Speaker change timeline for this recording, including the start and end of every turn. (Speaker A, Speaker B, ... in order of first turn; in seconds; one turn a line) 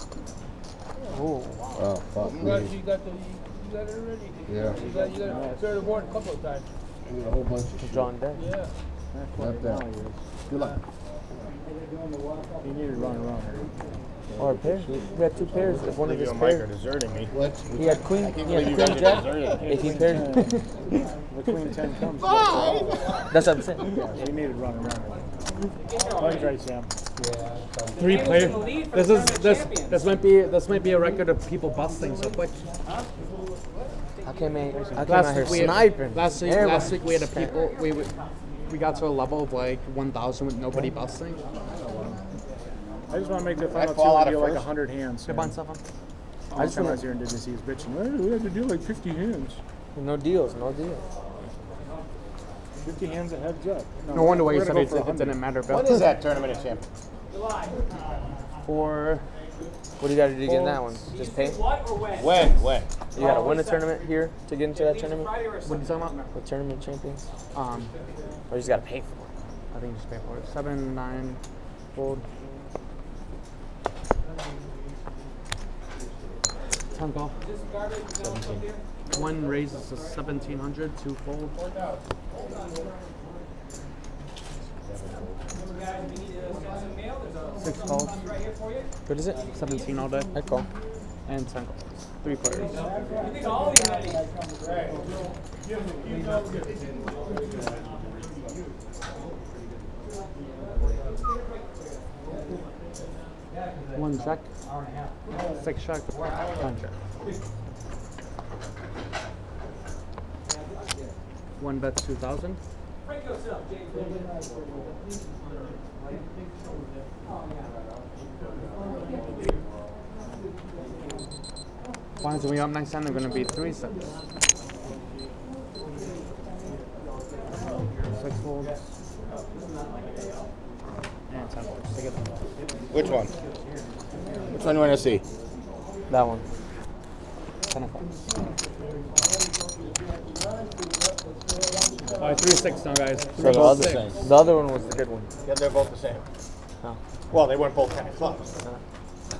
Speaker A: 1.0-1.6
Speaker B: 1.7-2.7
Speaker C: 2.3-6.7
Speaker B: 4.5-4.8
Speaker D: 4.9-5.8
Speaker B: 7.0-8.1
Speaker E: 7.8-8.4
Speaker C: 8.3-8.7
Speaker D: 9.1-10.2
Speaker B: 9.4-9.8
Speaker B: 10.5-10.8
Speaker D: 12.6-13.6
Speaker E: 14.4-16.7
Speaker B: 14.4-15.8
Speaker F: 16.0-17.3
Speaker B: 17.3-18.8
Speaker E: 17.7-20.7
Speaker F: 18.2-19.8
Speaker D: 19.5-20.6
Speaker D: 21.3-22.5
Speaker F: 22.3-22.9
Speaker E: 23.3-24.2
Speaker D: 23.9-25.2
Speaker G: 25.9-26.5
Speaker D: 26.1-26.9
Speaker A: 28.0-32.6
Speaker G: 28.0-30.0
Speaker E: 34.2-37.6
Speaker A: 35.0-38.1
Speaker A: 38.7-41.4
Speaker D: 43.1-45.5
Speaker F: 43.7-44.7
Speaker A: 45.3-45.8
Speaker D: 46.5-49.6
Speaker E: 46.6-47.0
Speaker E: 49.9-51.0
Speaker D: 52.8-55.5
Speaker A: 54.1-56.0
Speaker F: 55.7-56.8
Speaker G: 57.3-57.8
Speaker A: 58.6-59.2
Speaker E: 60.0-61.6
Speaker A: 60.5-60.8
Speaker G: 61.1-62.6
Speaker F: 62.1-62.9
Speaker E: 63.1-65.3
Speaker G: 63.1-64.0
Speaker G: 64.7-66.2
Speaker A: 65.7-66.2
Speaker E: 66.3-67.2
Speaker A: 67.5-67.9
Speaker E: 68.5-69.3
Speaker A: 69.7-71.4
Speaker A: 71.9-72.2
Speaker A: 76.9-77.3
Speaker G: 77.4-78.8
Speaker F: 78.2-78.7
Speaker A: 79.1-81.5
Speaker F: 84.8-85.4
Speaker G: 85.7-88.9
Speaker A: 87.6-88.2
Speaker E: 89.1-89.4
Speaker A: 89.5-90.3
Speaker E: 90.3-90.7
Speaker A: 91.3-92.7
Speaker G: 93.2-94.2
Speaker A: 103.9-104.5
Speaker A: 105.6-106.9
Speaker A: 111.6-112.6
Speaker G: 113.0-114.0
Speaker A: 122.2-124.0
Speaker A: 128.2-128.8
Speaker A: 131.3-132.3
Speaker F: 132.9-133.3
Speaker F: 134.5-135.2
Speaker E: 136.1-136.4
Speaker A: 137.7-138.1
Speaker A: 142.2-144.1
Speaker E: 143.4-145.3
Speaker F: 143.4-144.3
Speaker F: 145.4-146.2
Speaker F: 147.3-148.5